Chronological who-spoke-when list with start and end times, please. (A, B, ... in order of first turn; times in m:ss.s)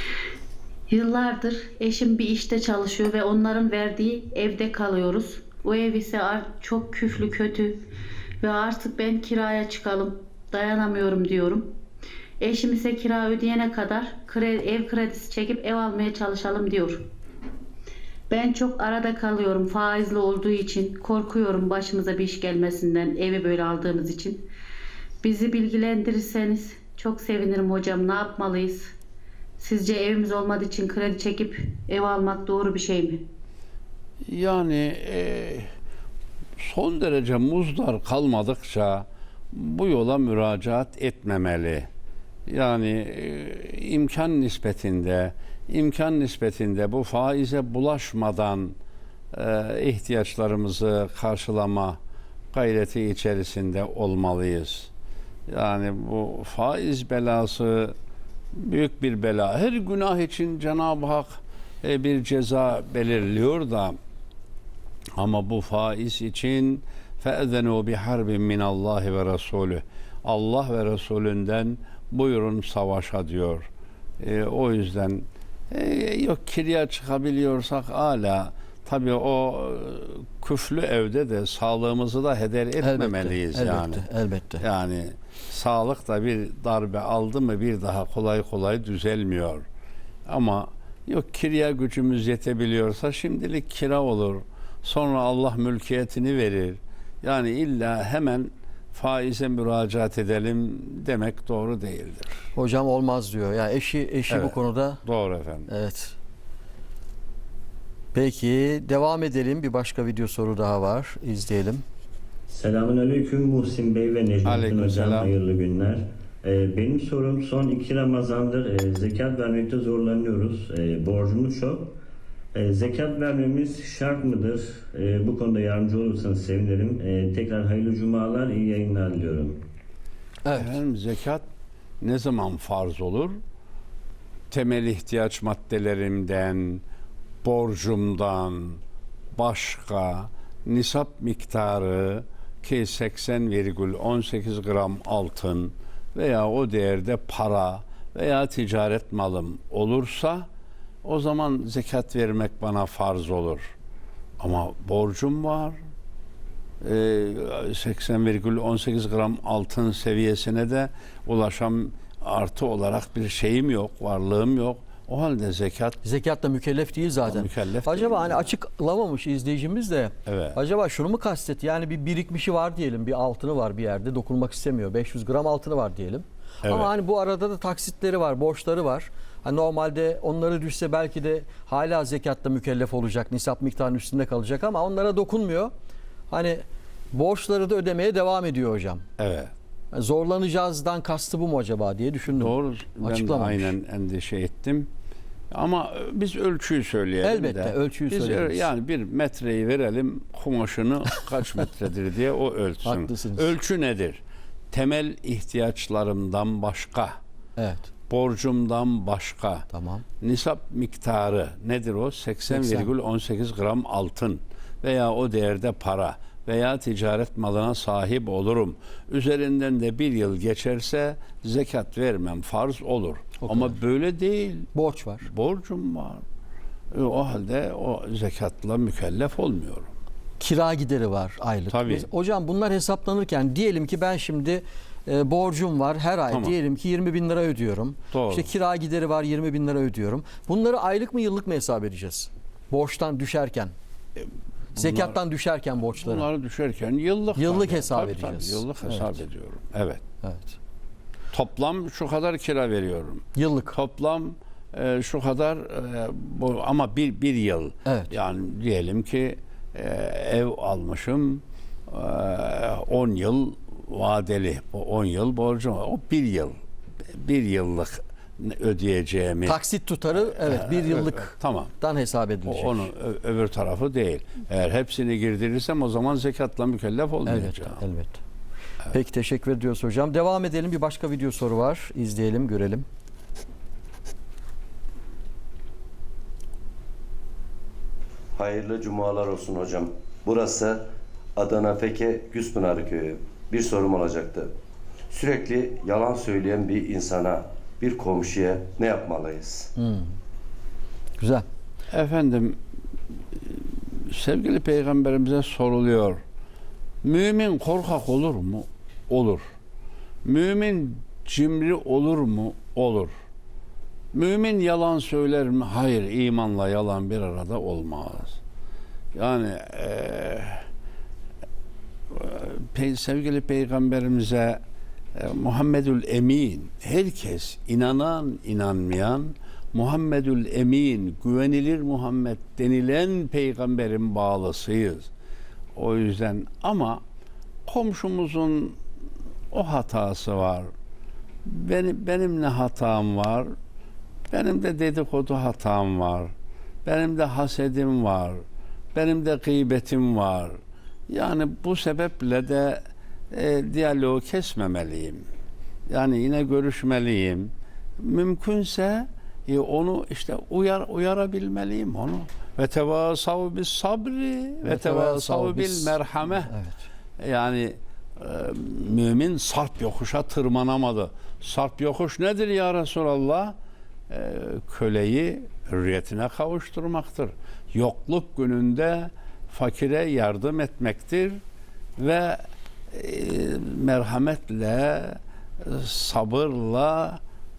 0:00.9-0:07.8 A
0:08.4-0:11.6 A
0:12.4-0:17.0 A
0:18.3-0:24.4 A
0:25.2-0:28.9 A
0:29.6-0:33.2 A
0:34.3-0:35.7 B
0:36.6-0:41.9 B
0:42.5-0:48.8 B
0:49.3-0:52.0 B
0:52.5-0:54.9 B
0:55.5-0:57.9 B
0:58.6-1:04.0 B
1:05.2-1:13.7 B
1:14.2-1:24.0 B
1:22.8-1:24.6 C
1:24.6-1:29.6 B
1:30.3-1:42.4 B
1:42.6-1:45.0 C
1:44.3-1:45.7 B
1:45.7-1:46.2 C
1:48.1-1:51.8 C
1:52.5-2:01.9 D
1:54.4-1:55.3 B
2:02.5-2:09.6 D
2:10.4-2:10.8 C
2:10.6-2:11.5 B
2:12.0-2:13.4 B
2:14.5-2:16.8 B
2:17.4-2:18.8 B
2:19.3-2:30.5 B
2:31.0-2:33.7 B
2:34.4-2:35.8 B
2:36.8-2:46.0 B
2:46.0-3:05.7 C
2:47.2-2:48.5 B
2:50.3-2:50.6 B
2:56.6-2:56.9 B
3:06.3-3:09.0 C
3:09.2-3:09.5 B
3:09.9-3:13.7 C
3:12.3-3:14.9 B
3:15.5-3:24.2 B
3:17.2-3:18.7 C
3:22.8-3:23.5 C
3:24.7-3:27.2 B
3:27.6-3:27.9 C
3:28.1-3:29.7 B
3:29.7-3:30.0 C
3:30.2-3:46.2 B
3:32.5-3:32.9 C
3:44.7-3:45.3 C
3:46.9-3:49.9 B
3:50.4-4:03.7 C
3:51.7-3:52.1 B
3:56.3-3:56.6 B
3:58.1-3:58.5 B
4:04.7-4:06.3 C
4:04.8-4:05.2 B
4:05.9-4:10.0 B
4:07.4-4:09.2 C
4:10.2-4:10.6 C
4:11.3-4:26.6 B
4:13.4-4:13.8 C
4:17.8-4:18.2 C
4:27.1-4:29.6 B
4:29.5-4:32.9 C
4:30.3-4:31.7 B
4:32.4-4:37.8 B
4:37.2-4:38.2 C
4:38.9-4:42.9 C
4:48.4-4:50.8 E
4:51.4-4:54.5 E
4:55.1-4:59.7 E
4:59.8-5:00.1 C
5:01.2-5:01.5 C
5:01.9-5:02.6 B
5:03.3-5:06.2 B
5:07.0-5:09.4 B
5:10.2-5:13.1 B
5:14.1-5:18.4 B
5:19.2-5:20.7 B
5:22.1-5:24.6 B
5:25.2-5:35.1 B
5:35.8-5:37.0 B
5:37.7-5:38.8 B
5:39.5-5:40.7 B
5:41.4-5:43.5 B
5:44.3-5:46.3 B
5:46.8-5:48.4 B
5:48.9-5:50.6 B
5:51.1-5:52.8 B
5:53.3-5:55.2 B
5:55.9-6:06.5 B
6:04.6-6:06.8 C
6:07.2-6:13.6 B
6:14.1-6:21.4 B
6:22.0-6:22.4 B
6:22.9-6:27.2 B